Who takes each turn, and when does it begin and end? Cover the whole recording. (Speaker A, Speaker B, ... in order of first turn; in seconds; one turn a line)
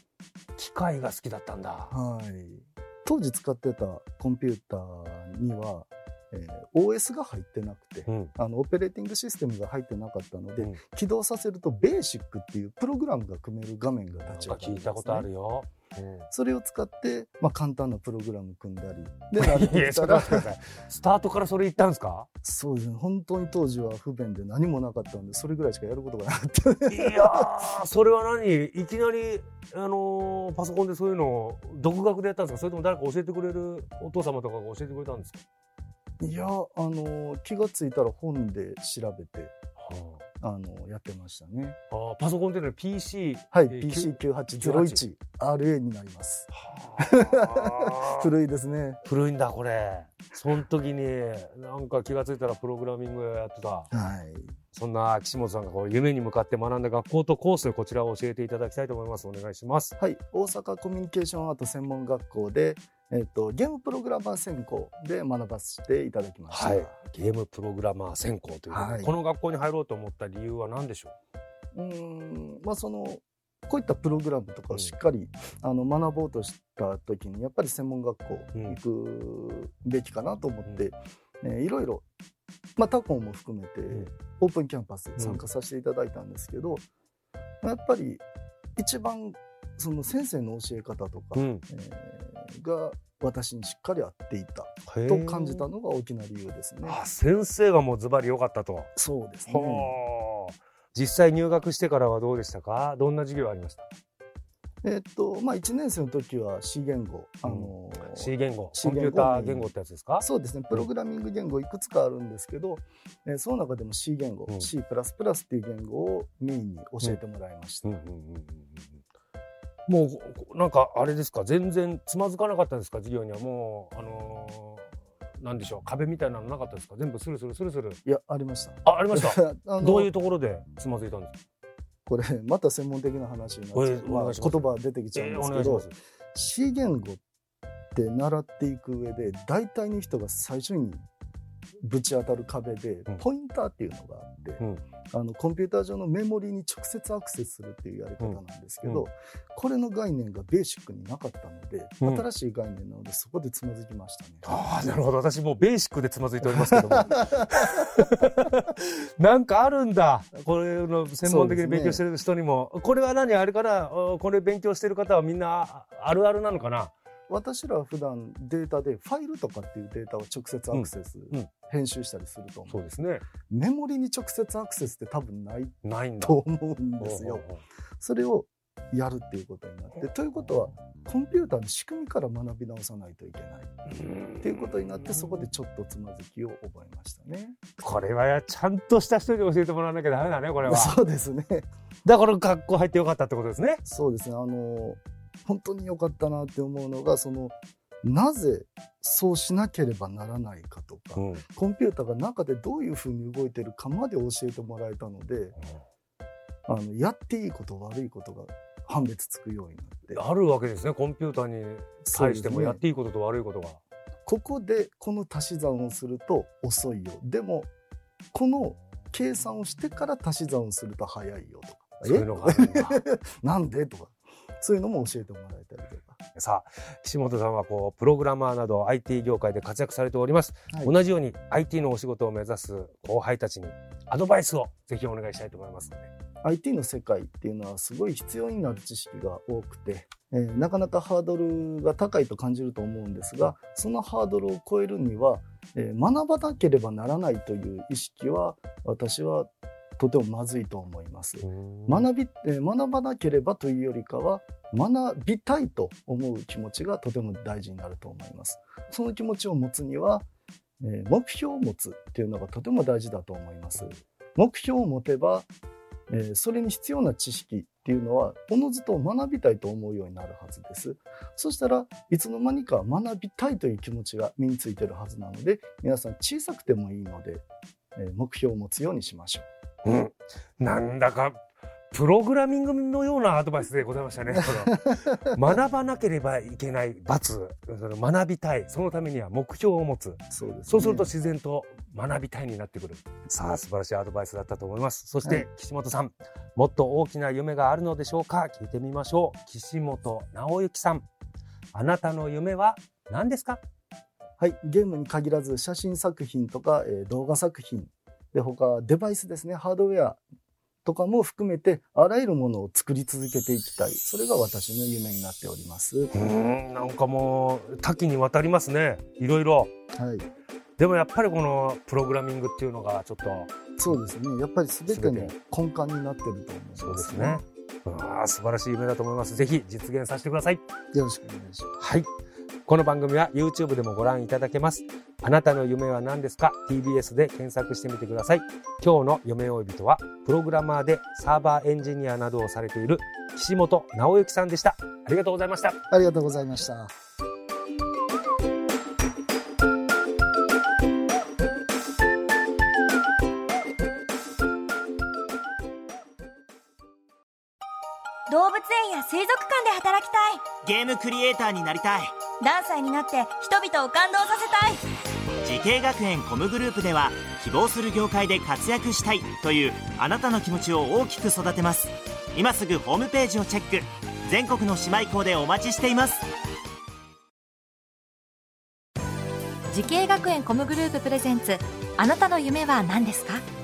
Speaker A: 0.6-1.9
Speaker B: 1.9-15.3
Speaker A: 8.1-8.3
Speaker A: 14.3-16.3
Speaker B: 16.3-20.5
Speaker A: 19.4-22.3
Speaker B: 22.4-27.5
Speaker A: 26.9-35.4
Speaker B: 36.2-39.5
Speaker A: 39.8-40.2
Speaker B: 40.4-41.8
Speaker A: 41.9-45.0
Speaker B: 43.5-49.0
Speaker A: 46.6-48.3
Speaker A: 49.0-53.9
Speaker B: 53.9-54.5
Speaker A: 54.7-59.9
Speaker B: 60.0-67.0
Speaker A: 66.5-71.1
Speaker B: 68.7-69.1
Speaker B: 71.7-82.0
Speaker B: 82.8-86.8
Speaker B: 87.6-88.2
Speaker B: 88.8-97.0
Speaker A: 91.3-91.6
Speaker A: 94.9-95.7
Speaker A: 96.8-98.9
Speaker B: 99.0-99.9
Speaker A: 99.5-103.9
Speaker B: 104.8-118.0
Speaker A: 107.4-110.9
Speaker A: 117.8-119.0
Speaker A: 119.9-128.0
Speaker B: 128.0-130.1
Speaker A: 128.8-131.4
Speaker B: 132.1-137.2
Speaker A: 133.7-134.6
Speaker A: 135.1-136.0
Speaker B: 137.9-141.0
Speaker B: 141.8-154.5
Speaker A: 148.2-149.0
Speaker A: 154.4-166.9
Speaker B: 156.6-157.8
Speaker B: 161.2-162.0
Speaker B: 167.3-172.8
Speaker A: 170.7-171.5
Speaker A: 172.7-173.2
Speaker B: 173.5-177.4
Speaker A: 175.8-176.4
Speaker A: 177.0-177.6
Speaker B: 178.0-183.7
Speaker A: 184.0-184.5
Speaker B: 184.4-187.8
Speaker A: 185.1-185.4
Speaker A: 187.8-190.9
Speaker B: 190.6-191.7
Speaker A: 192.0-193.8
Speaker B: 193.8-205.6
Speaker A: 201.2-201.4
Speaker B: 206.7-210.2
Speaker A: 210.1-213.8
Speaker B: 212.1-212.8
Speaker B: 214.2-217.7
Speaker B: 218.3-226.2
Speaker A: 222.0-223.0
Speaker A: 226.3-236.1
Speaker B: 236.4-260.2
Speaker A: 251.4-252.1
Speaker B: 260.8-265.5
Speaker B: 266.1-277.4
Speaker B: 277.9-279.5
Speaker A: 279.8-281.4
Speaker A: 281.9-301.0
Speaker B: 284.3-285.2
Speaker B: 290.3-291.1
Speaker A: 301.7-303.6
Speaker B: 304.4-310.2
Speaker B: 310.8-316.1
Speaker A: 316.1-319.7
Speaker B: 319.9-320.3
Speaker A: 320.8-324.0
Speaker B: 323.8-327.4
Speaker A: 324.9-325.3
Speaker A: 326.8-330.6
Speaker B: 330.9-331.8
Speaker A: 331.8-332.1
Speaker A: 332.6-345.8
Speaker B: 345.9-346.9
Speaker C: 358.3-360.5
Speaker D: 360.6-362.1
Speaker C: 362.4-364.8
Speaker D: 365.4-376.2
Speaker E: 379.7-383.4